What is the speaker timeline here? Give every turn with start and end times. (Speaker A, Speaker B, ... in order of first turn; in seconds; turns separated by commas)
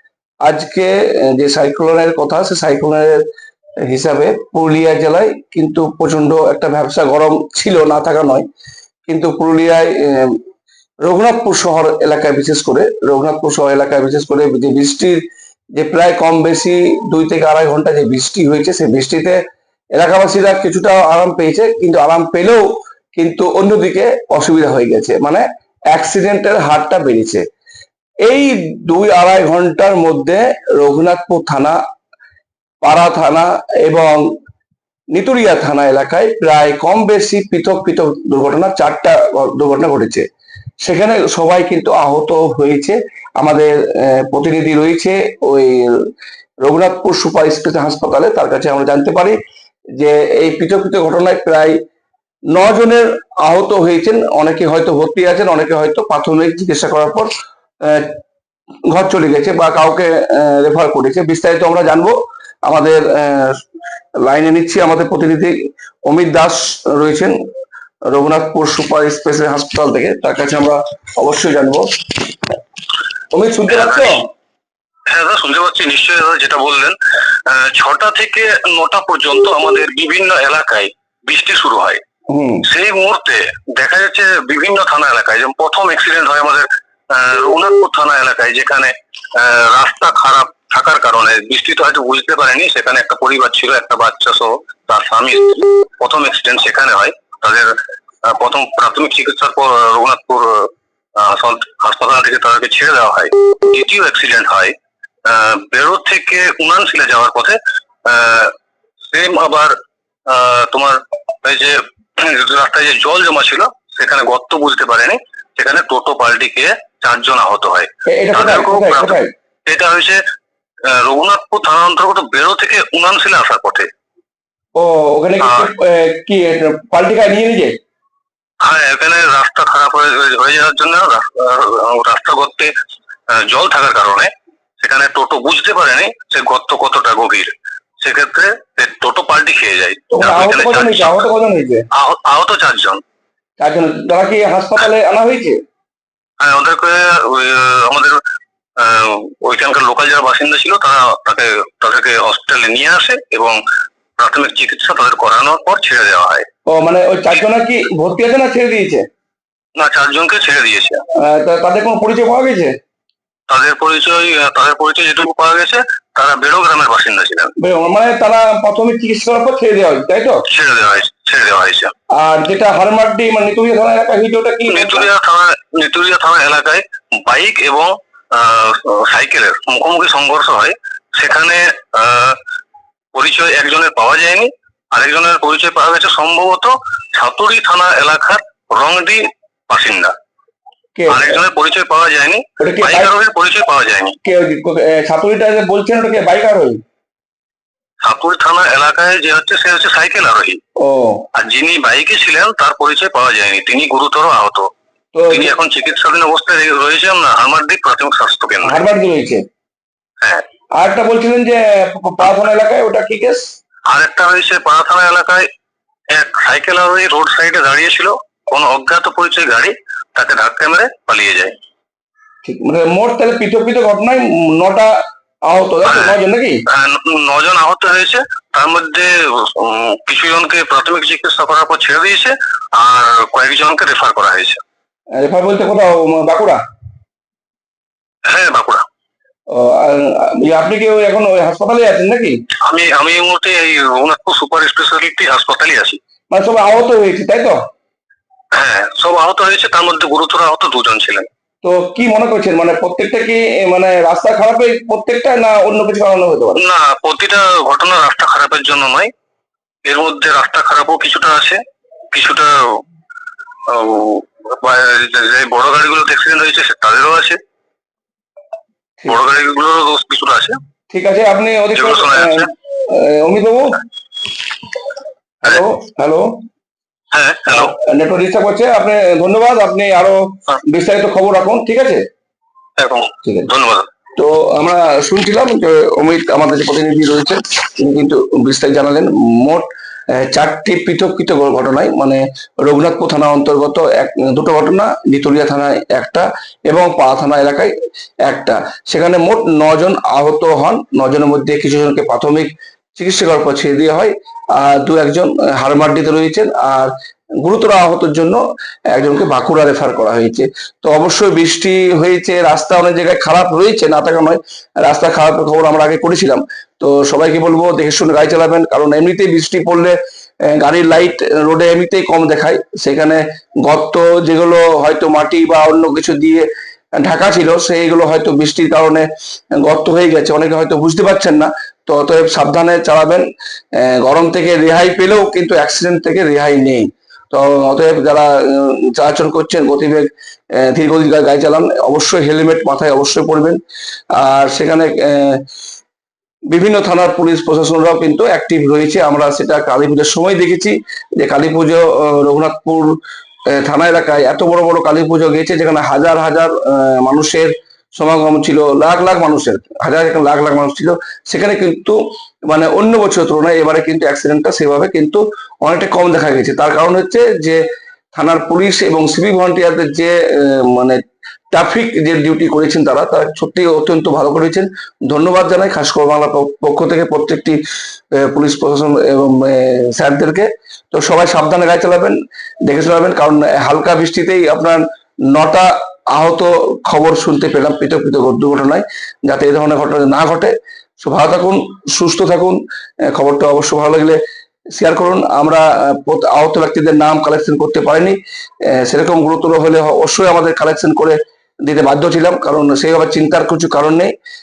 Speaker A: 0.4-3.2, Speaker A: 3.8-8.4, Speaker A: 9.1-10.4, Speaker A: 11.0-15.2, Speaker A: 15.7-19.4, Speaker A: 19.9-22.6, Speaker A: 23.1-27.4, Speaker A: 28.2-31.8, Speaker A: 32.8-34.2, Speaker A: 35.1-40.3, Speaker A: 40.8-46.1, Speaker A: 46.6-49.4, Speaker A: 50.0-51.8, Speaker A: 52.5-57.3, Speaker A: 57.8-58.2, Speaker A: 58.9-63.6, Speaker A: 64.2-67.3, Speaker A: 68.1-71.9, Speaker A: 73.3-74.2, Speaker B: 73.7-74.2, Speaker B: 75.1-82.0, Speaker A: 82.3-82.6, Speaker B: 82.6-104.7, Speaker B: 105.2-109.7, Speaker B: 110.3-120.2, Speaker A: 118.1-119.3, Speaker B: 120.8-123.9, Speaker A: 124.7-127.7, Speaker B: 125.4-125.7, Speaker B: 128.6-132.7, Speaker B: 133.3-141.2, Speaker A: 140.1-141.8, Speaker B: 141.9-143.0, Speaker A: 143.6-145.6, Speaker B: 146.4-148.2, Speaker B: 148.8-153.6, Speaker B: 154.2-156.4, Speaker A: 156.7-159.1, Speaker B: 159.8-161.0, Speaker A: 161.1-162.7, Speaker B: 163.5-167.5, Speaker A: 167.6-170.4, Speaker B: 170.5-171.9, Speaker A: 172.1-175.1, Speaker B: 174.7-182.4, Speaker B: 183.1-190.1, Speaker A: 190.9-191.4, Speaker B: 191.1-194.2, Speaker A: 192.6-193.1, Speaker A: 194.2-196.8, Speaker B: 198.0-200.6, Speaker A: 200.8-201.2, Speaker B: 201.3-204.7, Speaker A: 205.1-205.5, Speaker B: 205.3-208.8, Speaker A: 208.6-209.4, Speaker A: 210.8-213.4, Speaker B: 213.9-215.4, Speaker B: 216.1-221.5, Speaker A: 222.4-226.6, Speaker B: 225.8-234.6, Speaker A: 235.1-236.6, Speaker B: 238.3-238.8, Speaker A: 239.5-242.4, Speaker B: 242.7-246.0, Speaker A: 246.3-247.6, Speaker B: 248.5-251.3, Speaker A: 251.6-256.6, Speaker B: 256.6-259.1, Speaker B: 259.8-261.6, Speaker B: 262.1-262.8, Speaker B: 263.6-267.4, Speaker B: 269.1-270.6, Speaker A: 270.9-273.8, Speaker B: 271.7-272.5, Speaker A: 275.4-276.4, Speaker B: 277.1-277.7, Speaker A: 277.5-282.0, Speaker B: 282.8-283.9, Speaker A: 283.2-283.5, Speaker A: 284.2-297.7, Speaker A: 298.2-343.6, Speaker A: 344.1-345.4, Speaker A: 346.5-353.0, Speaker A: 353.5-367.6, Speaker A: 368.1-371.0, Speaker A: 371.5-377.6, Speaker A: 378.1-394.2, Speaker A: 394.7-404.1